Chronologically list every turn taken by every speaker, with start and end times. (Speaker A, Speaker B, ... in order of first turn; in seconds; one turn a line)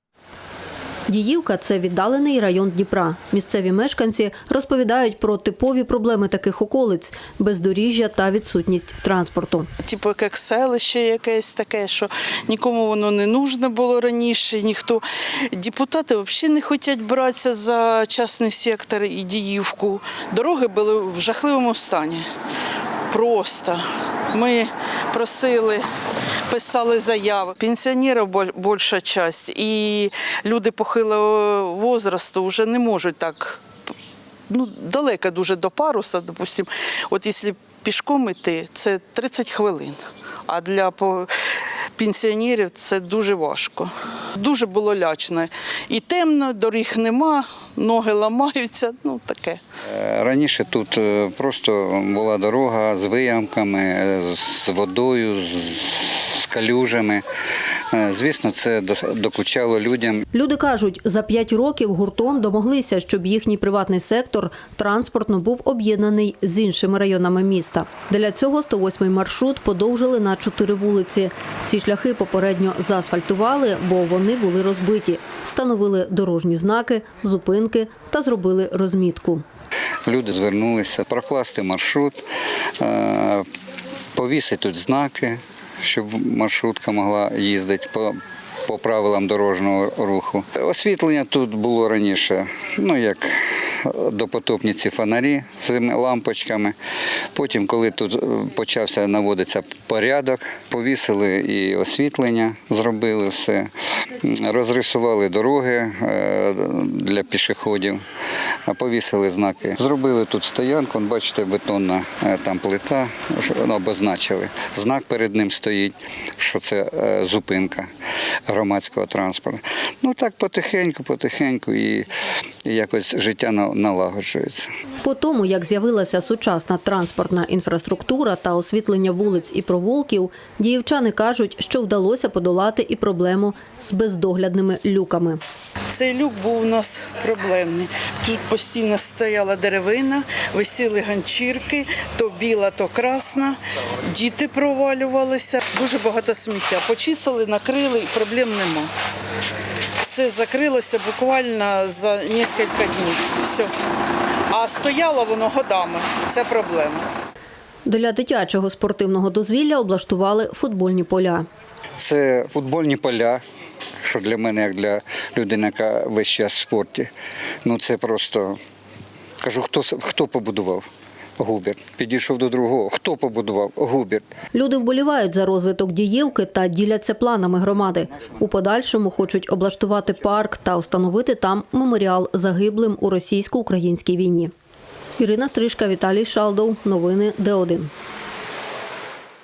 Speaker A: 1.1-9.7
Speaker B: 9.8-22.3
Speaker B: 23.1-25.9
Speaker B: 26.5-33.6
Speaker B: 34.5-41.3
Speaker B: 42.0-49.6
Speaker C: 49.9-57.2
Speaker C: 57.9-60.2
Speaker A: 60.3-79.4
Speaker C: 80.1-82.3
Speaker C: 82.8-83.5
Speaker C: 84.2-96.8
Speaker C: 97.3-108.0
Speaker C: 108.7-117.9
Speaker C: 118.5-122.1
Speaker C: 122.7-124.7
Speaker A: 125.0-135.4
Speaker B: 135.9-148.9
Speaker B: 150.0-153.7
Speaker B: 154.5-157.1
Speaker A: 157.8-161.5
Speaker C: 162.0-163.4
Speaker C: 164.0-167.1
Speaker C: 167.6-168.6
Speaker C: 169.4-170.9
Speaker C: 171.4-174.2
Speaker A: 174.5-184.5
Speaker A: 185.2-187.9